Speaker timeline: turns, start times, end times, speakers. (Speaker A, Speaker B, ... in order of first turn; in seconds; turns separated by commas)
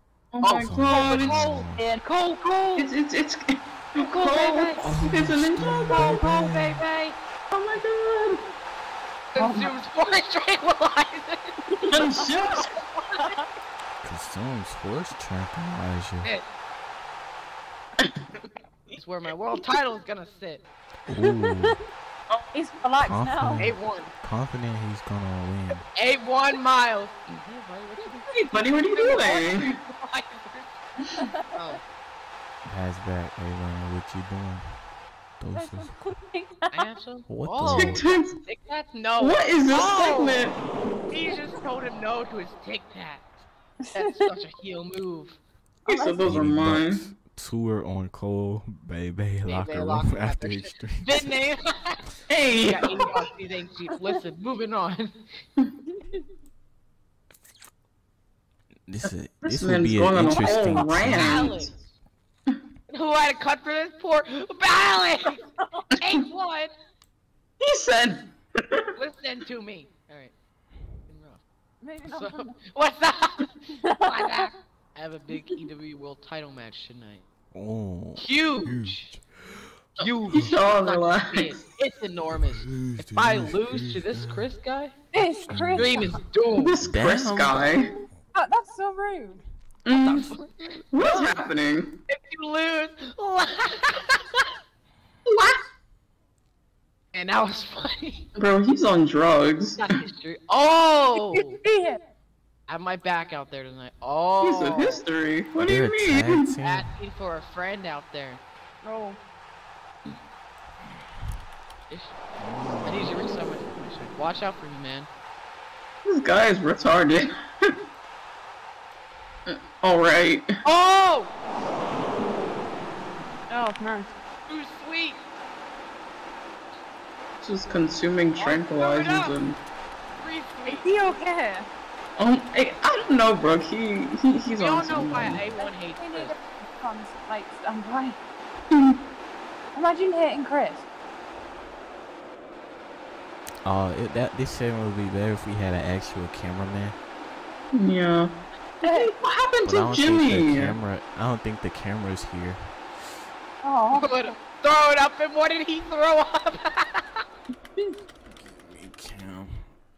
Speaker A: 0.3-1.4, Speaker B: 0.4-2.9, Speaker C: 0.6-1.9, Speaker A: 2.8-6.5, Speaker B: 4.0-4.8, Speaker C: 4.8-6.8, Speaker B: 5.9-7.2, Speaker A: 7.5-8.4, Speaker B: 9.3-11.4, Speaker D: 9.4-9.7, Speaker A: 11.9-12.7, Speaker B: 12.9-13.3, Speaker D: 13.2-13.4, Speaker C: 14.0-16.3, Speaker B: 19.0-20.6, Speaker C: 21.1-21.8, Speaker D: 21.2-21.8, Speaker D: 22.5-23.6, Speaker C: 23.0-25.9, Speaker B: 23.6-24.1, Speaker B: 26.0-30.8, Speaker A: 28.3-29.7, Speaker D: 31.2-31.4, Speaker B: 31.5-31.8, Speaker C: 32.7-34.7, Speaker C: 35.4-36.0, Speaker D: 35.5-36.8, Speaker B: 36.7-40.4, Speaker C: 37.3-38.0, Speaker A: 37.7-38.3, Speaker A: 39.2-40.6, Speaker B: 41.1-43.2, Speaker D: 43.9-44.2, Speaker B: 43.9-45.4, Speaker D: 45.9-46.3, Speaker A: 45.9-47.0, Speaker C: 46.2-51.3, Speaker B: 49.5-52.0, Speaker A: 52.3-52.9, Speaker B: 52.6-55.1, Speaker C: 58.9-61.5, Speaker A: 59.1-61.7, Speaker B: 61.0-61.8, Speaker B: 62.9-65.4, Speaker B: 66.0-66.7, Speaker A: 67.6-68.8, Speaker B: 69.0-70.3, Speaker B: 71.1-71.4, Speaker D: 71.8-72.5, Speaker B: 72.0-77.2, Speaker D: 73.8-74.5, Speaker C: 77.5-79.2, Speaker B: 78.2-79.1, Speaker B: 80.0-85.0, Speaker C: 80.0-80.5, Speaker A: 80.3-81.5, Speaker C: 82.3-84.5, Speaker D: 85.1-86.1, Speaker C: 85.5-86.2, Speaker B: 85.7-86.8, Speaker A: 86.5-87.9, Speaker C: 86.8-87.8, Speaker D: 88.3-89.4, Speaker A: 89.9-90.3, Speaker B: 89.9-91.4, Speaker A: 90.9-91.9, Speaker B: 92.1-94.5, Speaker B: 97.1-98.3, Speaker A: 98.4-99.8, Speaker B: 99.8-101.6, Speaker D: 101.3-102.0, Speaker B: 102.7-105.0, Speaker A: 104.4-106.4, Speaker C: 105.6-106.9, Speaker B: 106.6-108.4, Speaker D: 108.8-109.2, Speaker B: 111.9-112.2, Speaker C: 112.4-113.2, Speaker B: 112.8-115.1, Speaker A: 116.0-117.3, Speaker A: 119.5-120.5, Speaker B: 120.6-121.3, Speaker D: 123.5-124.1, Speaker B: 124.5-125.2, Speaker A: 127.4-129.6, Speaker B: 128.4-129.4, Speaker B: 130.2-130.9, Speaker D: 130.7-131.7, Speaker A: 132.2-135.5, Speaker B: 134.6-136.4, Speaker D: 135.6-138.2, Speaker D: 139.8-140.8, Speaker C: 143.7-147.0, Speaker A: 147.7-148.3, Speaker D: 148.8-149.1, Speaker A: 148.9-150.8, Speaker C: 149.7-152.6, Speaker D: 153.6-154.3, Speaker B: 153.9-157.2, Speaker C: 158.3-159.6